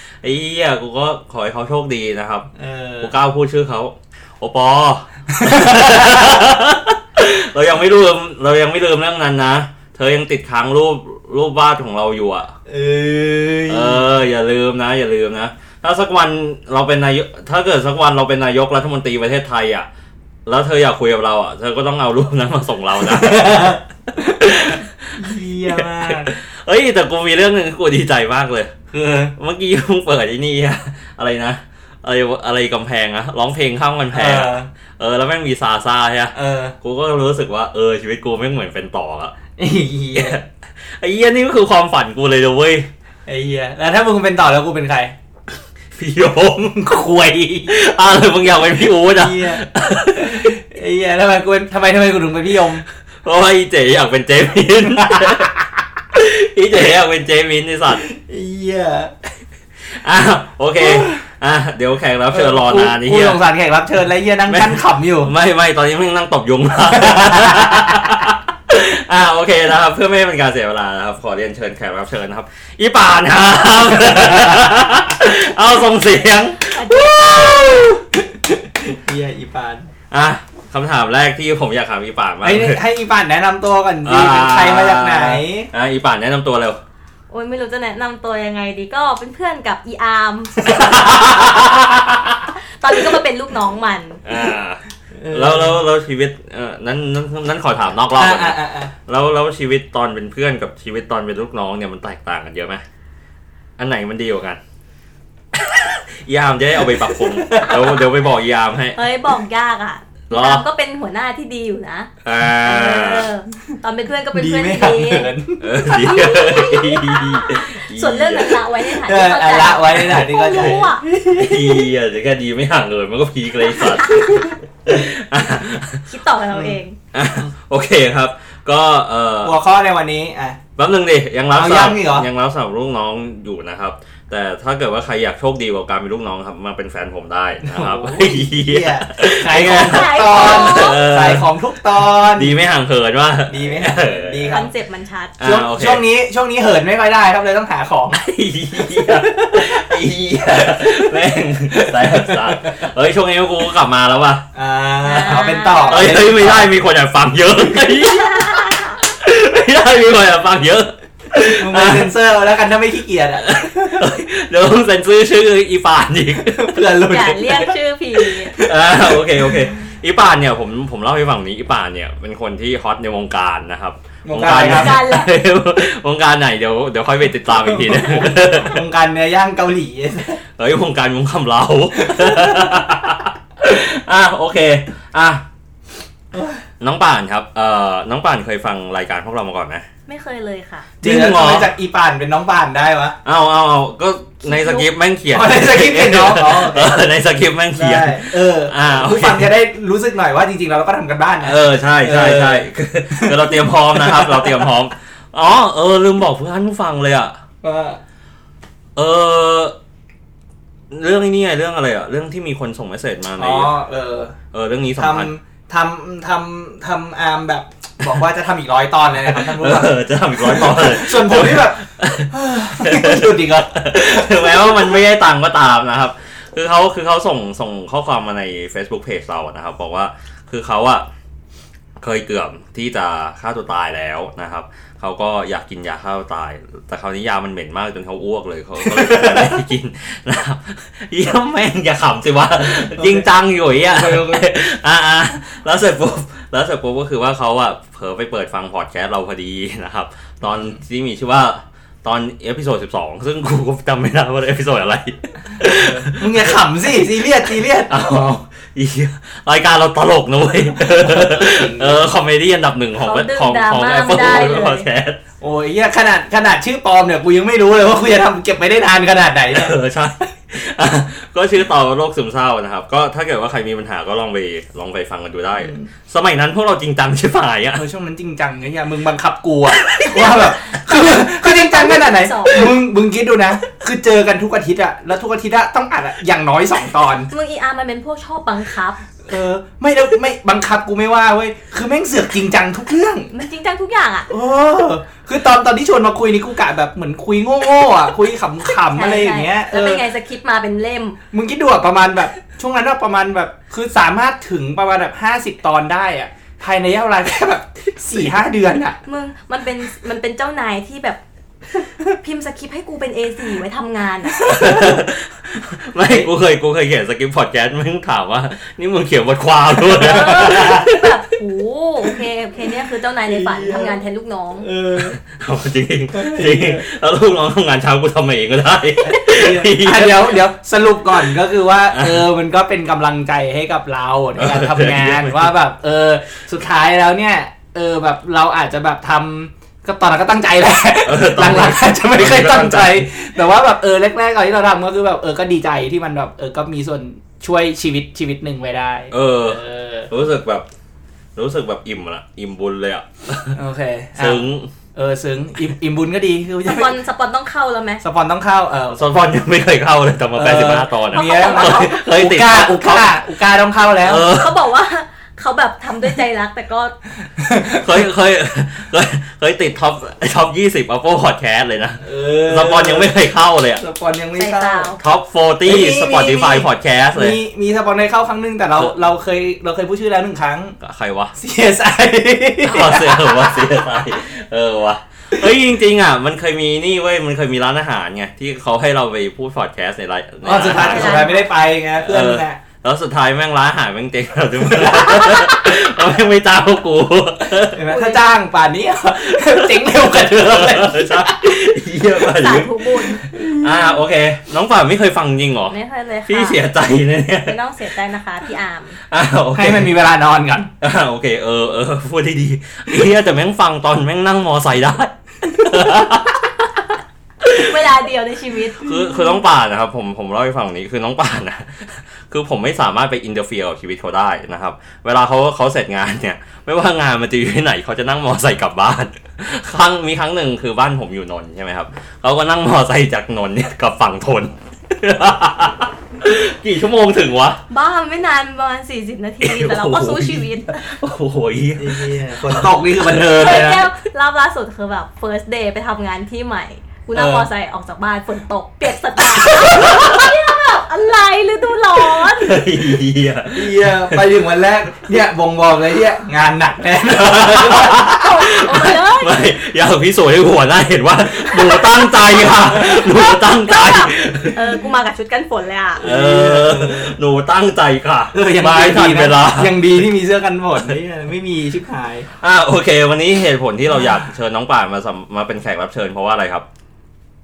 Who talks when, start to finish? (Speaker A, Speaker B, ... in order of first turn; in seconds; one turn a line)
Speaker A: 0.2-2.5
Speaker B: 2.5-3.1
Speaker A: 3.0-12.5
Speaker B: 5.3-6.4
Speaker B: 12.7-14.0
Speaker A: 13.7-19.9
Speaker A: 20.4-28.7
Speaker B: 23.2-23.8
Speaker B: 25.1-26.3
Speaker B: 28.9-29.3
Speaker A: 29.3-39.3
Speaker B: 34.1-34.7
Speaker B: 36.3-36.8
Speaker B: 39.6-40.4
Speaker A: 40.1-42.9
Speaker B: 43.2-45.1
Speaker A: 46.0-46.8
Speaker B: 46.6-47.7
Speaker A: 47.7-50.5
Speaker B: 49.1-49.6
Speaker B: 50.2-52.8
Speaker A: 53.2-55.5
Speaker B: 55.0-55.5
Speaker A: 56.1-58.0
Speaker B: 57.9-59.1
Speaker A: 59.9-63.4
Speaker B: 60.8-61.2
Speaker B: 62.3-65.3
Speaker A: 64.5-78.0
Speaker B: 67.0-68.0
Speaker C: 76.6-77.9
Speaker B: 78.2-79.9
Speaker A: 80.1-82.8
Speaker B: 82.4-85.7
Speaker A: 84.0-86.8
Speaker C: 87.3-91.7
Speaker B: 90.7-92.4
Speaker A: 90.7-91.4
Speaker C: 92.5-94.2
Speaker A: 94.2-102.8
Speaker B: 95.2-95.8
Speaker B: 98.1-98.9
Speaker A: 103.8-104.6
Speaker A: 105.5-109.0
Speaker B: 106.8-108.0
Speaker C: 108.9-115.3
Speaker A: 110.3-110.6
Speaker A: 112.2-113.3
Speaker B: 114.3-116.3
Speaker A: 115.6-118.6
Speaker C: 115.8-121.0
Speaker B: 119.0-121.9
Speaker A: 119.9-126.0
Speaker C: 123.8-124.5
Speaker C: 126.1-127.0
Speaker A: 127.1-129.6
Speaker B: 129.4-130.6
Speaker A: 130.8-144.6
Speaker B: 131.5-132.3
Speaker B: 137.6-142.5
Speaker C: 139.5-141.0
Speaker B: 143.5-144.7
Speaker C: 144.5-145.3
Speaker A: 145.4-146.1
Speaker B: 145.4-148.2
Speaker A: 148.1-154.4
Speaker B: 148.8-152.8
Speaker B: 154.5-156.8
Speaker C: 155.0-156.2
Speaker A: 155.3-162.2
Speaker C: 158.0-159.0
Speaker B: 161.5-164.1
Speaker A: 163.4-166.8
Speaker B: 166.4-169.7
Speaker C: 167.1-168.6
Speaker A: 168.6-178.8
Speaker B: 174.2-175.0
Speaker C: 174.6-175.3
Speaker B: 177.6-180.4
Speaker A: 180.6-185.4
Speaker B: 182.0-182.8
Speaker B: 186.3-186.6
Speaker A: 186.8-189.8
Speaker C: 190.1-190.9
Speaker A: 191.0-191.7
Speaker B: 191.0-193.2
Speaker A: 193.2-199.5
Speaker C: 194.5-194.8
Speaker B: 195.3-197.1
Speaker B: 197.7-203.4
Speaker A: 201.4-207.4
Speaker B: 203.9-204.6
Speaker B: 207.6-208.0
Speaker A: 208.9-209.8
Speaker A: 210.9-213.7
Speaker B: 213.4-214.3
Speaker A: 214.5-215.3
Speaker B: 215.0-224.9
Speaker A: 219.2-231.1
Speaker A: 232.0-256.5
Speaker B: 238.9-239.6
Speaker B: 242.7-244.5
Speaker B: 255.6-257.9
Speaker A: 257.9-265.2
Speaker B: 260.8-262.0
Speaker C: 263.0-264.9
Speaker B: 265.4-269.8
Speaker A: 269.5-277.9
Speaker B: 275.6-275.9
Speaker B: 277.7-287.3
Speaker A: 280.0-280.4
Speaker C: 280.1-282.7
Speaker C: 287.3-289.0
Speaker B: 289.2-293.3
Speaker C: 293.3-294.3
Speaker B: 294.3-300.0
Speaker C: 298.9-301.2
Speaker B: 301.3-309.0
Speaker C: 309.1-311.2
Speaker C: 311.8-314.5
Speaker A: 314.4-321.2
Speaker B: 314.5-315.0
Speaker B: 316.0-316.3
Speaker B: 319.9-320.9
Speaker C: 319.9-324.7
Speaker B: 323.3-324.0
Speaker B: 324.6-325.2
Speaker A: 324.9-330.4
Speaker B: 326.1-326.8
Speaker B: 329.0-350.1
Speaker A: 331.9-332.3
Speaker A: 334.4-335.5
Speaker A: 341.0-343.1
Speaker A: 349.1-350.7
Speaker A: 351.4-353.6
Speaker B: 353.5-357.0
Speaker A: 354.2-354.7
Speaker C: 356.6-358.0
Speaker B: 358.0-359.0
Speaker A: 358.9-363.2
Speaker B: 360.3-364.3
Speaker C: 361.1-362.0
Speaker A: 364.0-364.6
Speaker C: 364.2-366.9
Speaker B: 367.4-367.8
Speaker A: 367.7-373.8
Speaker B: 372.0-373.1
Speaker B: 373.8-374.9
Speaker C: 374.4-375.0
Speaker A: 375.0-377.4
Speaker B: 375.6-380.8
Speaker A: 380.8-381.3
Speaker B: 381.4-383.7
Speaker A: 382.6-391.4
Speaker B: 390.4-392.6
Speaker C: 390.6-391.5
Speaker A: 392.0-397.9
Speaker B: 394.8-395.5
Speaker B: 397.7-401.6
Speaker C: 397.9-398.2
Speaker A: 399.3-405.8
Speaker C: 402.3-403.2
Speaker B: 403.3-403.9
Speaker C: 405.7-406.6
Speaker A: 406.3-407.6
Speaker C: 407.4-409.0
Speaker A: 409.1-409.9
Speaker B: 409.5-410.7
Speaker A: 410.8-416.8
Speaker A: 417.4-417.8
Speaker C: 417.5-419.1
Speaker A: 418.8-437.6
Speaker C: 437.7-440.8
Speaker A: 439.4-443.7
Speaker B: 441.8-443.9
Speaker C: 443.3-452.6
Speaker B: 447.1-447.5
Speaker A: 449.8-450.2
Speaker A: 452.3-454.2
Speaker B: 453.5-458.2
Speaker A: 457.1-464.8
Speaker C: 458.0-459.4
Speaker C: 461.6-461.9
Speaker C: 462.5-466.0
Speaker B: 466.0-467.1
Speaker A: 466.0-470.0
Speaker B: 468.3-472.3
Speaker A: 472.4-476.6